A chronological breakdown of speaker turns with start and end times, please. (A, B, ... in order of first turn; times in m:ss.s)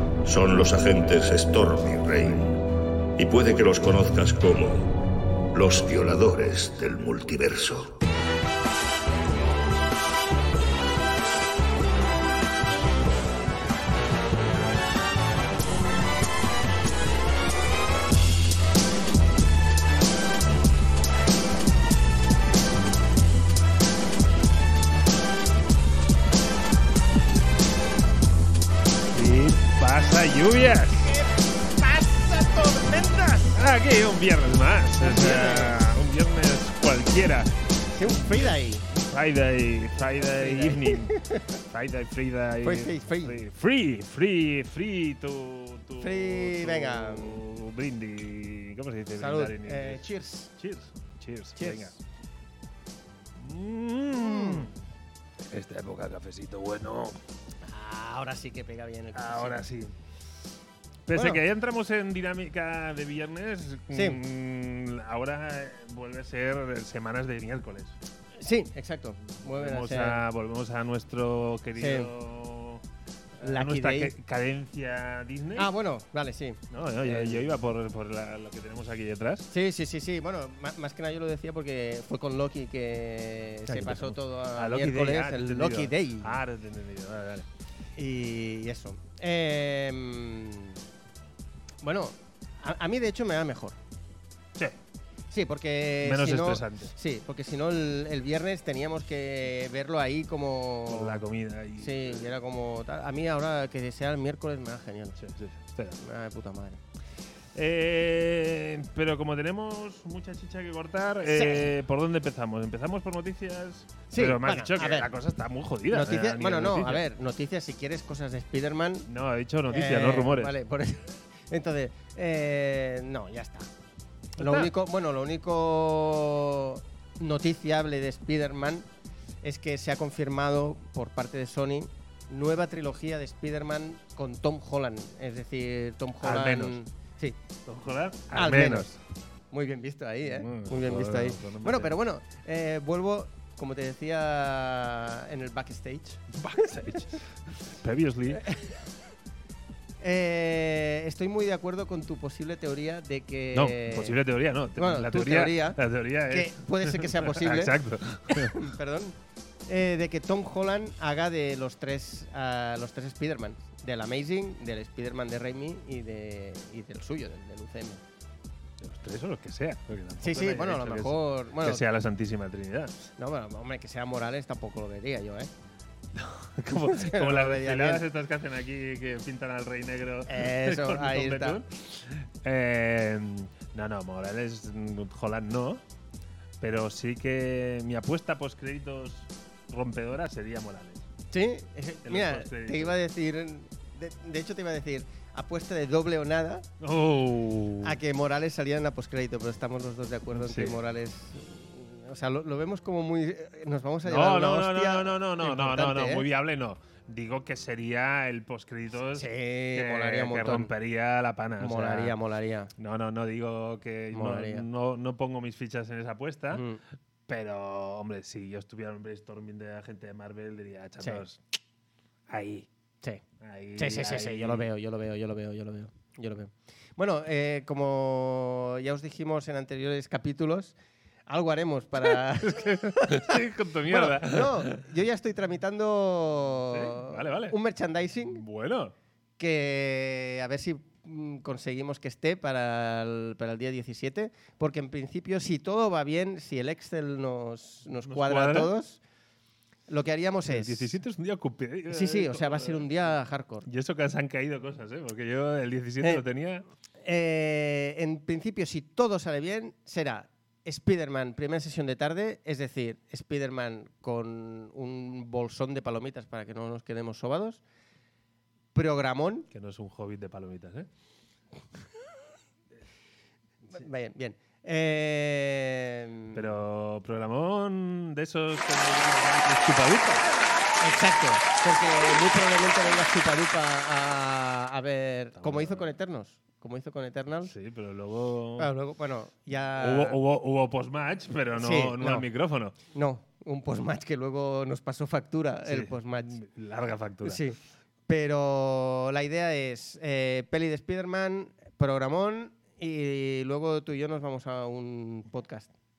0:00.2-0:02.6 A
0:03.2-0:05.0 A
0:05.5-0:08.0 A
0:29.1-0:31.2 B
0:31.0-0:33.6 C
0:33.5-0:52.0 B
0:35.0-0:35.9 C
0:37.9-0:38.9 C
0:40.2-0:41.6 C
0:42.6-0:43.4 C
0:46.0-0:47.4 C
0:49.2-0:50.5 C
0:51.6-0:51.9 C
0:53.4-0:54.7 B
0:54.1-0:54.7 C
0:55.4-0:57.2 B
0:57.6-0:59.6 C
0:59.1-0:59.9 B
1:01.1-1:08.0 B
1:01.1-1:01.4 C
1:03.9-1:04.2 C
1:08.4-1:10.2 C
1:09.3-1:12.8 B
1:11.8-1:12.1 C
1:13.4-1:14.1 C
1:13.4-1:15.7 B
1:15.6-1:17.4 C
1:16.7-1:19.5 B
1:19.5-1:26.4 C
1:23.7-1:27.5 B
1:28.0-1:30.8 C
1:31.8-1:33.8 C
1:35.3-1:41.2 C
1:36.0-1:36.9 B
1:40.9-1:42.3 B
1:41.8-1:45.2 C
1:45.2-1:46.0 B
1:46.0-1:46.8 C
1:47.5-1:57.0 B
1:51.2-1:51.8 C
1:54.1-1:55.1 C
1:55.9-1:59.1 C
1:59.1-2:00.5 B
1:59.7-2:03.7 C
2:04.4-2:04.7 B
2:04.4-2:08.9 C
2:09.4-2:17.4 C
2:16.2-2:16.8 B
2:17.7-2:19.0 B
2:18.3-2:18.9 C
2:19.5-2:26.3 C
2:20.2-2:22.0 B
2:26.3-2:28.5 B
2:28.3-2:28.8 C
2:30.0-2:34.2 C
2:33.5-2:38.7 B
2:34.8-2:48.0 C
2:48.8-2:53.0 B
2:50.2-2:51.8 C
2:53.2-2:55.5 C
2:56.1-3:05.8 B
2:56.8-2:58.0 C
3:00.3-3:01.6 C
3:06.6-3:11.0 B
3:11.3-3:16.7 C
3:12.0-3:13.0 B
3:16.8-3:18.0 B
3:17.8-3:26.2 C
3:20.3-3:20.8 B
3:24.0-3:32.2 B
3:29.2-3:30.7 C
3:31.6-3:32.7 C
3:32.8-3:36.6 B
3:34.1-3:34.7 C
3:36.5-3:36.8 C
3:37.3-3:41.4 B
3:41.0-3:41.2 C
3:42.3-3:42.7 B
3:43.4-3:44.7 B
3:43.8-3:50.8 C
3:51.3-3:58.4 C
3:53.1-3:54.9 B
3:56.7-3:57.6 B
3:58.3-3:58.9 B
3:59.4-4:09.0 C
4:08.0-4:08.7 B
4:09.9-4:11.0 C
4:10.5-4:12.9 B
4:11.9-4:13.7 C
4:13.7-4:16.7 B
4:17.0-4:27.6 C
4:28.7-4:29.5 C
4:29.5-4:30.9 B
4:33.7-4:36.4 C
4:36.3-4:40.3 B
4:40.8-4:47.5 C
4:45.4-4:45.9 B
4:47.4-4:48.7 B
4:48.6-4:50.2 C
4:49.8-4:52.8 B
4:51.6-4:52.3 C
4:52.9-4:56.4 C
4:55.6-4:57.4 B
4:57.2-5:05.7 C